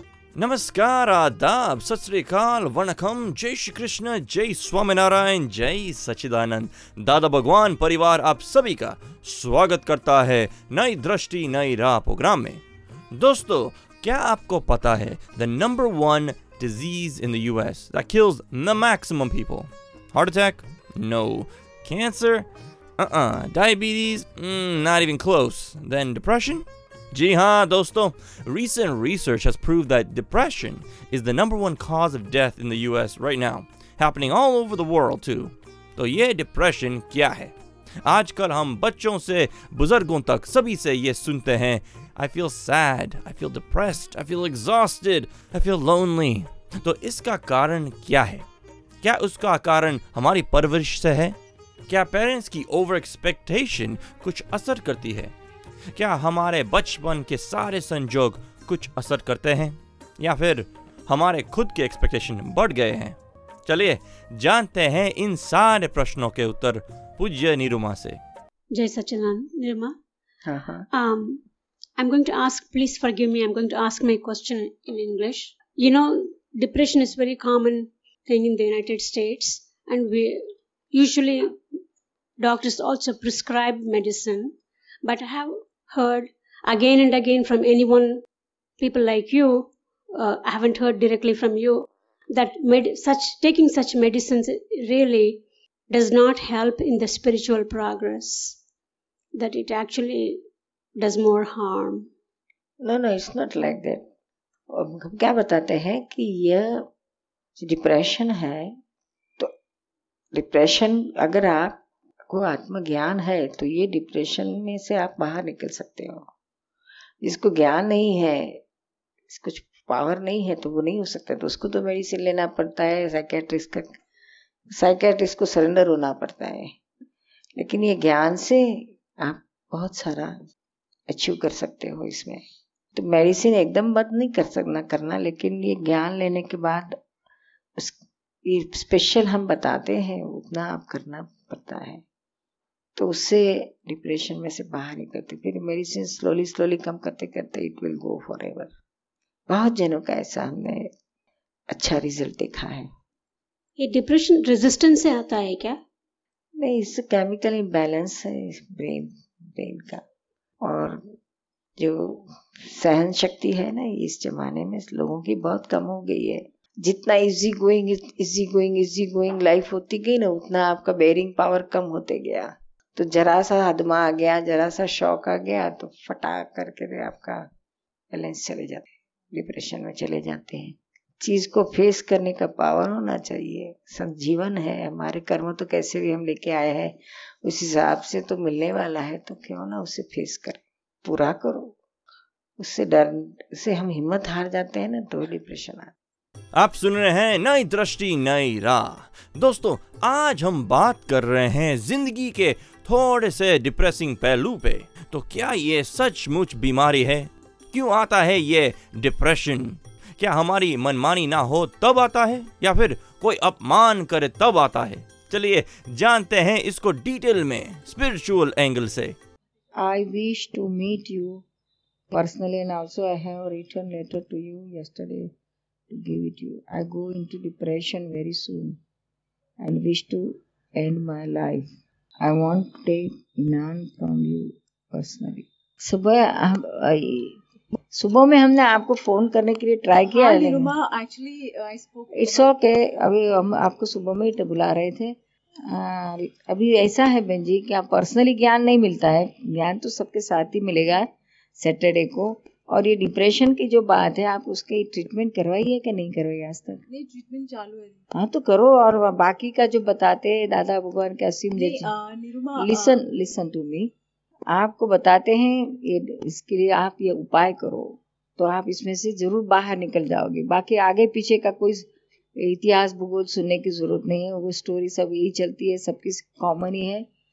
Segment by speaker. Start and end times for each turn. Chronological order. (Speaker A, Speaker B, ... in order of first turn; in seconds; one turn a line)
Speaker A: 0.3-12.6
Speaker A: 13.1-22.5
Speaker A: 23.0-48.4
Speaker A: 49.0-51.4
Speaker A: 51.9-55.3
Speaker A: 55.9-68.2
Speaker B: 68.7-70.0
Speaker C: 70.4-70.8
Speaker B: 70.9-71.4
Speaker B: 72.0-80.4
Speaker B: 80.9-81.5
Speaker B: 82.4-88.2
Speaker B: 88.8-95.4
Speaker B: 95.9-98.5
Speaker B: 99.4-100.3
Speaker B: 101.0-102.0
Speaker C: 102.8-104.0
Speaker C: 104.7-106.8
Speaker C: 107.6-108.7
Speaker C: 110.3-116.3
Speaker C: 117.2-118.6
Speaker C: 119.3-123.9
Speaker C: 124.7-126.7
Speaker C: 127.6-130.3
Speaker C: 131.1-132.4
Speaker C: 132.9-136.9
Speaker C: 137.8-142.0
Speaker C: 142.9-148.7
Speaker C: 149.5-150.9
Speaker C: 151.7-152.9
Speaker B: 153.8-155.7
Speaker C: 156.6-160.0
Speaker C: 160.6-161.0
Speaker C: 161.8-177.4
Speaker C: 178.1-191.7
Speaker C: 192.6-195.9
Speaker A: 196.5-219.2
Speaker C: 219.8-221.4
Speaker C: 222.1-225.3
Speaker C: 225.9-228.8
Speaker C: 229.6-231.7
Speaker C: 232.2-237.4
Speaker C: 237.9-240.7
Speaker D: 240.1-242.5
Speaker C: 242.1-245.2
Speaker C: 245.7-256.8
Speaker D: 256.9-258.0
Speaker C: 258.1-261.9
Speaker D: 261.5-263.0
Speaker C: 262.6-263.9
Speaker C: 264.5-277.1